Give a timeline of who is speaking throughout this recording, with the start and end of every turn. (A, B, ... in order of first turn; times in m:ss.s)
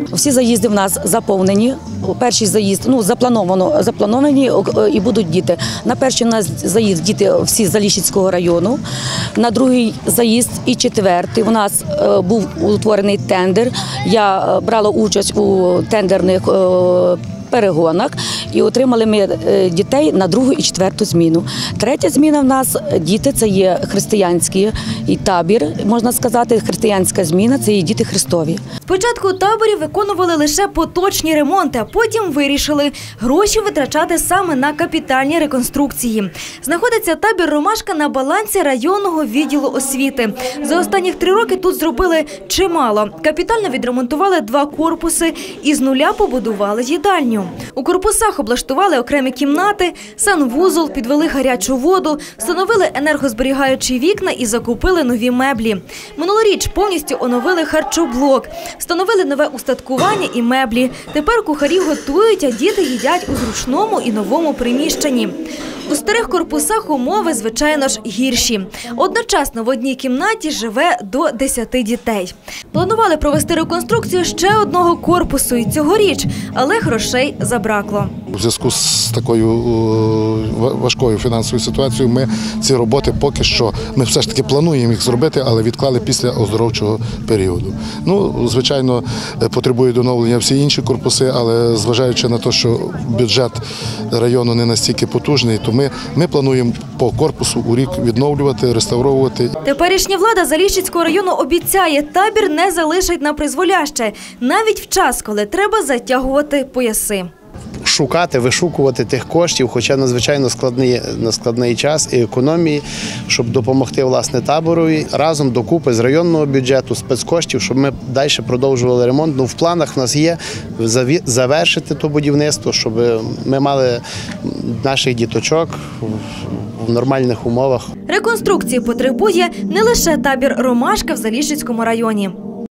0:00.1-0:08.8 A
0:09.4-0:28.6 A
0:28.9-1:05.4 B
1:05.9-1:18.1 B
1:18.3-1:39.5 C
1:39.6-1:47.3 B
1:47.8-2:07.9 D
2:08.1-2:12.4 B